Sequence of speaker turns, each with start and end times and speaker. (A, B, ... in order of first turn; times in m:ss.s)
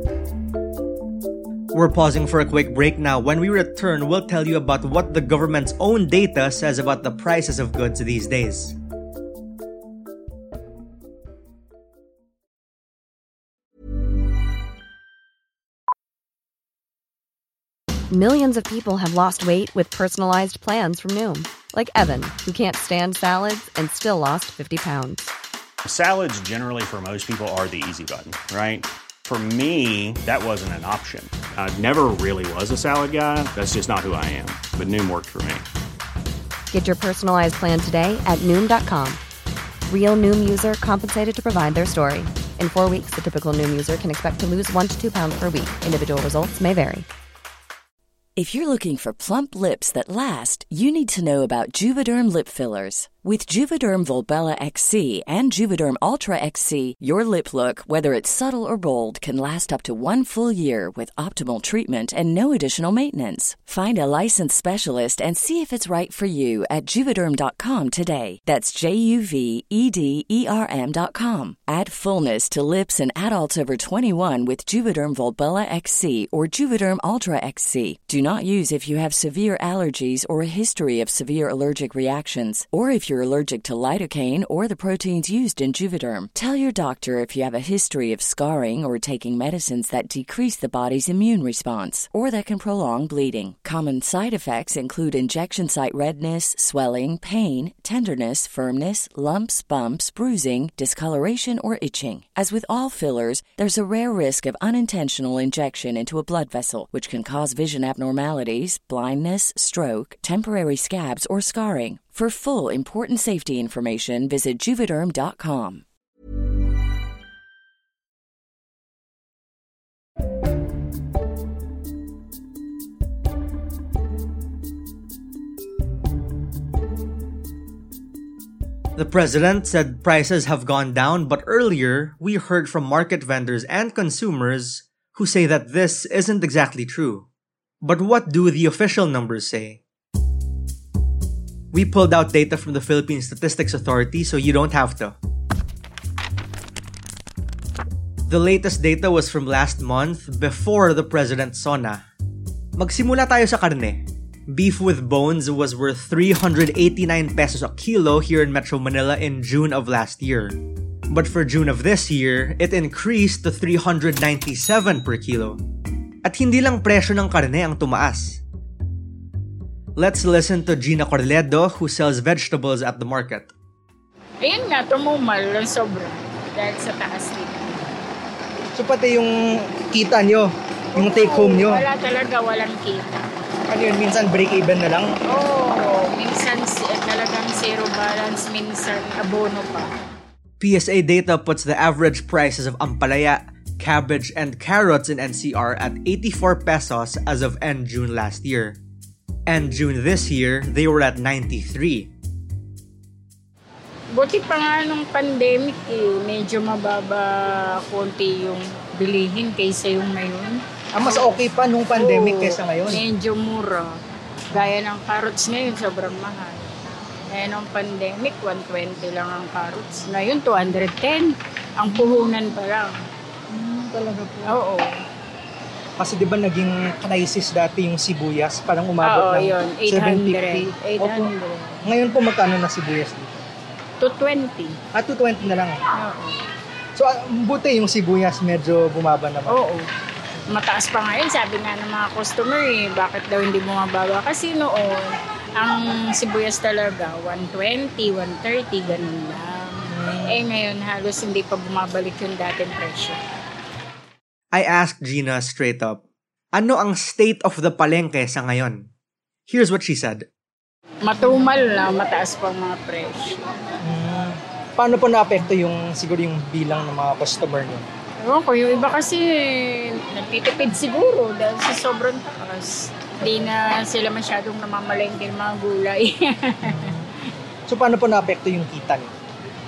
0:01.7-0:08.8 A
0:18.1-0:25.3 B
0:25.8-0:35.6 C
0:36.7-0:39.2 B
0:39.9-0:47.0 B
0:48.4-1:55.8 D
2:09.0-2:17.3 A
2:17.8-2:19.8 A
2:21.7-2:25.2 A
2:28.3-2:32.0 A
2:32.8-2:40.6 A
2:41.1-2:45.6 A
2:46.2-2:48.4 A
2:50.0-2:53.5 A
2:54.4-2:57.9 E
2:58.7-3:01.8 F
3:01.0-3:03.3 E
3:03.7-3:05.1 F
3:05.3-3:09.9 E
3:10.6-3:18.8 A
3:19.5-3:22.1 A
3:24.2-3:31.4 E
3:30.9-3:33.0 F
3:31.9-3:33.9 E
3:34.5-3:36.8 E
3:37.3-3:42.9 E
3:43.5-3:44.6 F
3:44.4-3:44.9 E
3:46.0-3:51.3 F
3:49.0-3:51.8 E
3:51.8-3:53.4 F
3:54.0-3:54.8 E
3:54.9-3:55.8 F
3:56.0-3:56.4 E
3:57.0-3:59.7 F
3:59.5-3:59.8 E
4:00.5-4:13.2 E
4:09.9-4:10.5 F
4:14.5-4:16.0 A
4:16.5-4:18.9 A
4:19.5-4:20.2 A
4:21.0-4:23.4 E
4:23.8-4:27.8 F
4:28.2-4:36.9 E
4:36.7-4:37.0 F
4:37.7-4:39.1 F